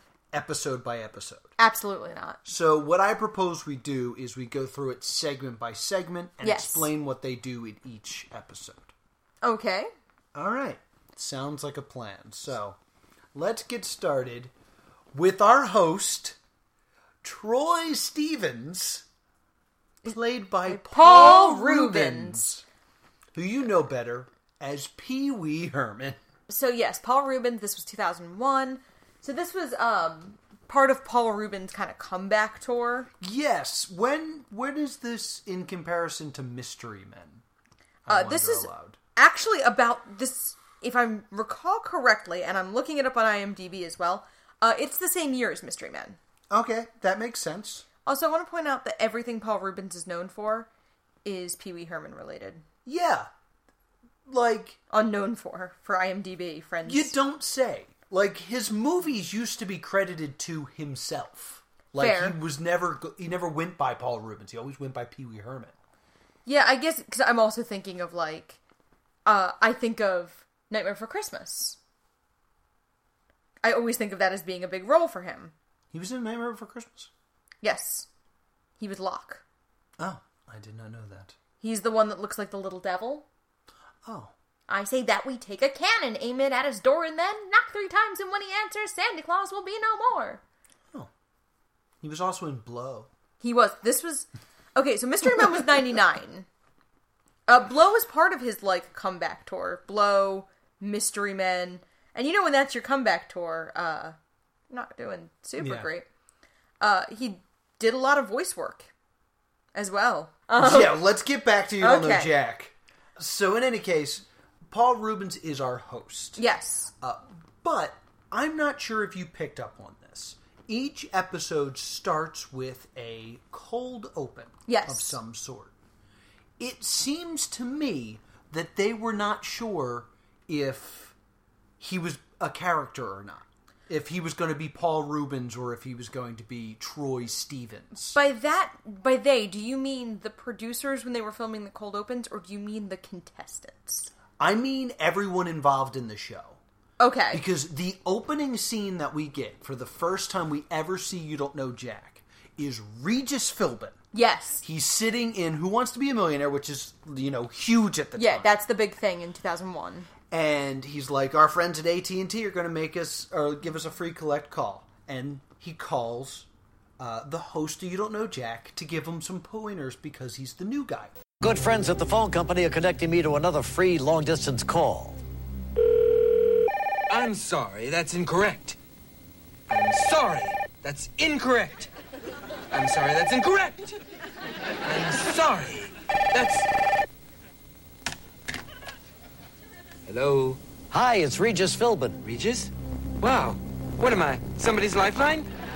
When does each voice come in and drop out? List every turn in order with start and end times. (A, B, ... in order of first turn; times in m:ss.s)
0:00.3-0:01.5 A
0:01.6-0:02.4 B
0:02.4-0:08.9 A
0:06.4-0:06.9 B
0:09.4-0:09.9 B
0:10.3-0:12.8 A
0:13.3-0:14.5 A
0:15.1-0:16.4 A
0:17.2-0:19.0 A
0:20.0-0:22.6 A
0:20.6-0:22.4 B
0:23.3-0:26.2 A
0:26.5-0:33.1 B
0:33.2-0:37.4 A
0:38.0-0:39.0 A
0:38.1-0:46.2 B
0:46.5-0:47.8 A
0:48.0-0:50.7 B
0:51.2-0:52.6 B
0:52.8-0:53.3 A
0:54.3-0:54.8 A
0:54.9-0:57.1 B
0:56.8-1:05.8 A
1:02.0-1:02.4 B
1:06.4-1:08.6 B
1:09.2-1:11.8 B
1:13.6-1:15.5 B
1:15.9-1:17.1 A
1:17.6-1:18.1 B
1:18.8-1:19.4 B
1:20.0-1:21.4 A
1:21.6-1:23.2 B
1:24.0-1:24.3 A
1:24.7-1:30.4 B
1:32.0-1:33.1 A
1:33.4-1:36.4 B
1:37.5-1:44.2 B
1:44.7-1:46.0 B
1:45.6-1:45.9 A
1:46.8-1:48.9 B
1:49.7-1:51.0 B
1:50.6-1:56.4 A
1:51.8-1:52.3 B
1:56.4-1:56.9 B
1:57.0-2:05.7 A
2:04.7-2:05.2 B
2:06.6-2:11.1 A
2:11.8-2:18.2 A
2:18.1-2:24.1 B
2:24.4-2:26.6 A
2:27.0-2:27.4 B
2:27.3-2:34.0 A
2:34.1-2:34.6 B
2:34.6-2:38.5 A
2:38.2-2:40.1 B
2:40.3-2:46.5 A
2:47.0-2:51.1 A
2:51.4-2:55.2 C
2:57.1-2:58.8 D
2:59.7-3:01.9 D
3:02.7-3:04.0 D
3:04.8-3:06.7 D
3:10.0-3:10.6 D
3:10.9-3:12.2 C
3:12.2-3:15.5 D